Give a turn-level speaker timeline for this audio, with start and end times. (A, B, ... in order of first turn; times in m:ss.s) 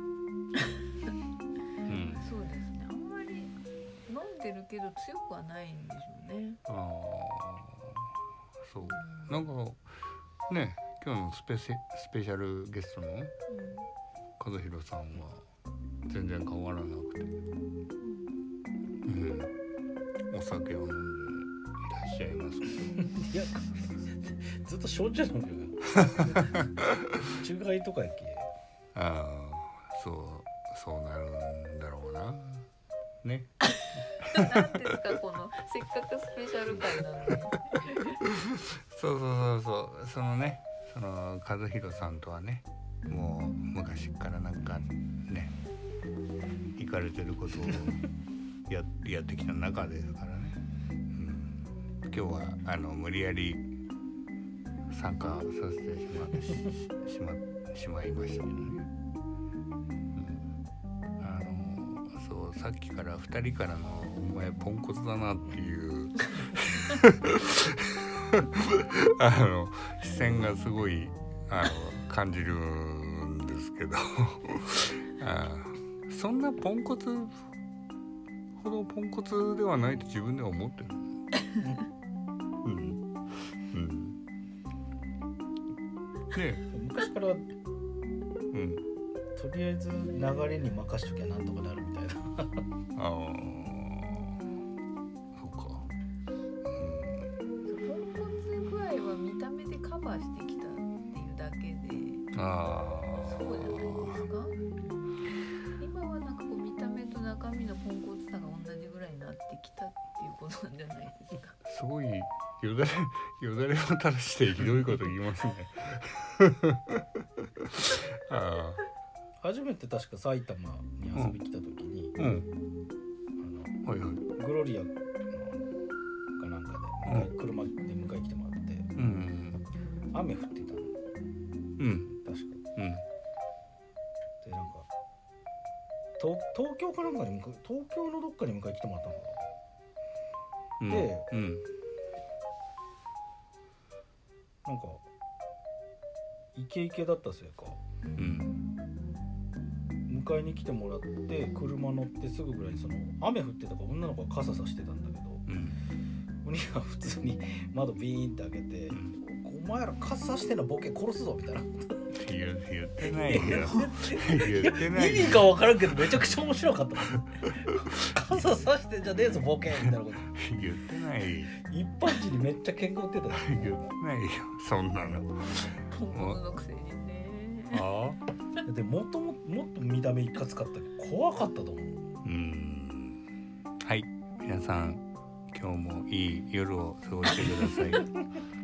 0:01.8-0:02.3 A
0:01.9-0:03.5 B
0:04.1-0:06.6 B
0:06.7-0:08.1 A
0:08.6-0:09.9 A
0:08.8-0:09.5 B
0:10.5-0:13.3 A
0:13.5-0:13.9 B
0:14.4-0:15.4 A
0:16.1-0:17.3 A
0:18.0-0:18.3 B
0:19.0-0:19.5 A
0:20.3-0:23.0 A
0:22.7-0:28.5 C
0:28.9-0:32.7 A
0:33.2-0:33.5 A
0:34.2-0:38.2 B
0:38.2-0:45.5 A
0:46.8-0:48.0 A
0:48.7-0:50.6 A
0:51.1-0:53.7 A
0:54.9-0:58.9 A
1:00.1-1:00.5 A
1:01.2-1:17.4 A
1:18.5-1:21.2 A
1:21.6-1:21.8 C
1:22.6-1:24.2 A
1:26.3-1:26.6 A
1:26.7-1:27.5 C
1:28.5-1:28.8 A
1:29.4-1:32.6 C
1:32.9-1:34.4 A
1:35.3-1:35.9 A
1:36.7-1:37.3 A
1:37.6-1:42.2 B
1:42.3-1:44.2 A
1:43.2-1:51.6 B
1:51.7-1:58.8 A
1:59.4-2:02.2 C
2:02.2-2:02.5 A
2:03.4-2:03.8 C
2:03.8-2:04.2 A
2:04.3-2:05.7 C
2:06.4-2:08.9 C
2:07.0-2:07.3 A
2:08.9-2:09.7 A
2:10.1-2:11.0 C
2:11.8-2:12.1 A
2:12.1-2:12.6 C
2:12.8-2:13.0 A
2:14.4-2:14.9 C
2:16.2-2:19.5 C
2:20.8-2:21.6 A
2:20.9-2:21.3 C
2:24.6-2:25.0 C
2:26.5-2:27.8 C
2:28.2-2:28.6 A
2:30.1-2:35.5 C
2:35.5-2:35.8 A
2:36.4-2:42.2 C
2:38.9-2:39.2 A
2:42.2-2:46.2 A
2:43.0-2:50.3 C
2:47.0-2:48.0 A
2:49.8-2:51.5 A
2:51.6-2:53.9 C
2:53.3-2:56.4 A
2:55.9-2:57.9 B
2:57.7-2:58.2 A
2:58.6-3:02.2 C
3:02.2-3:03.2 A
3:03.8-3:08.1 A